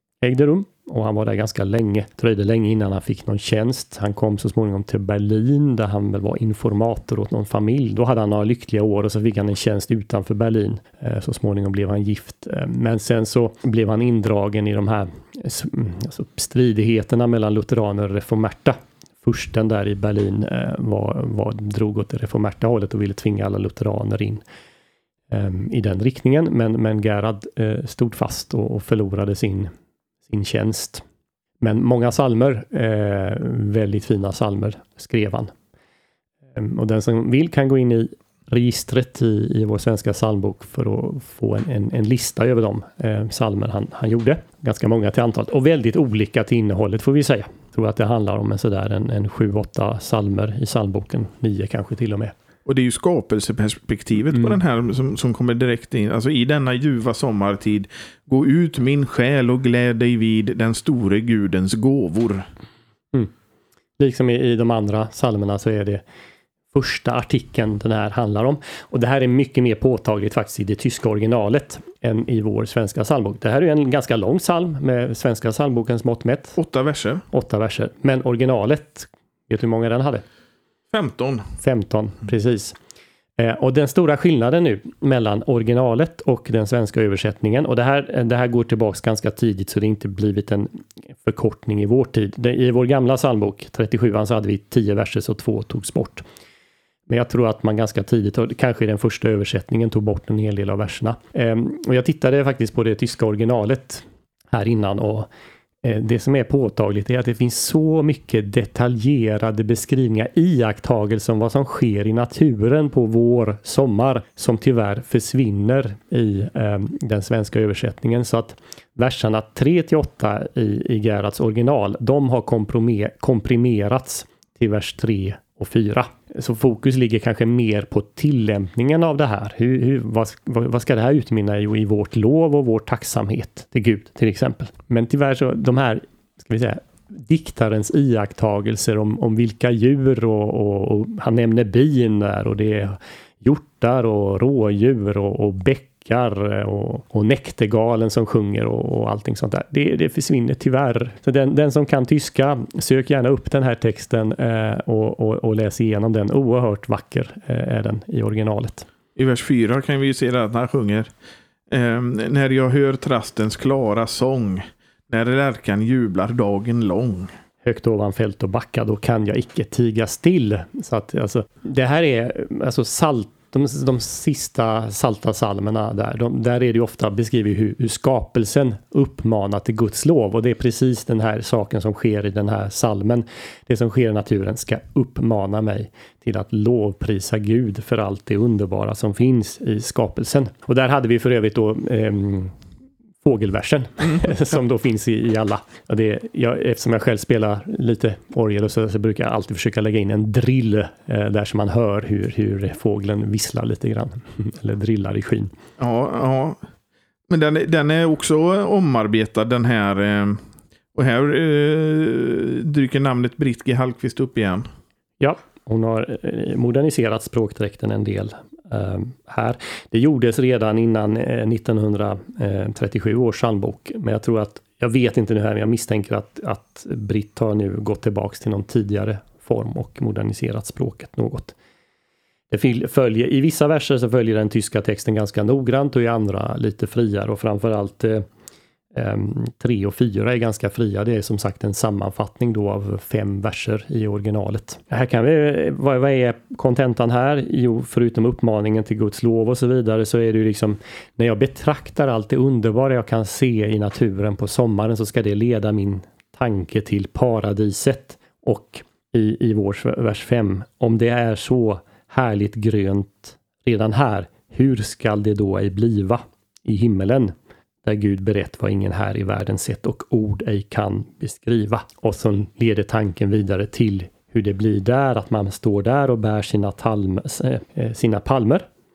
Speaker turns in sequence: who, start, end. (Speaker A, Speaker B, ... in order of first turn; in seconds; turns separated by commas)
Speaker A: 0.2-24.4, Speaker A: 25.3-29.7, Speaker A: 30.2-31.0, Speaker A: 31.6-35.5, Speaker A: 36.5-52.3, Speaker B: 52.6-62.5, Speaker A: 64.0-66.0, Speaker A: 66.7-76.6, Speaker B: 76.6-77.2, Speaker A: 77.3-80.2, Speaker B: 80.9-81.5, Speaker A: 81.6-82.8, Speaker A: 83.4-96.2, Speaker A: 97.1-105.3, Speaker A: 105.8-158.9, Speaker B: 159.2-161.1, Speaker B: 161.7-167.3, Speaker A: 167.6-192.5, Speaker A: 193.2-205.5, Speaker B: 205.8-206.6, Speaker B: 207.3-210.4, Speaker B: 210.9-214.7, Speaker A: 215.2-231.5, Speaker A: 232.5-238.2, Speaker A: 238.9-278.6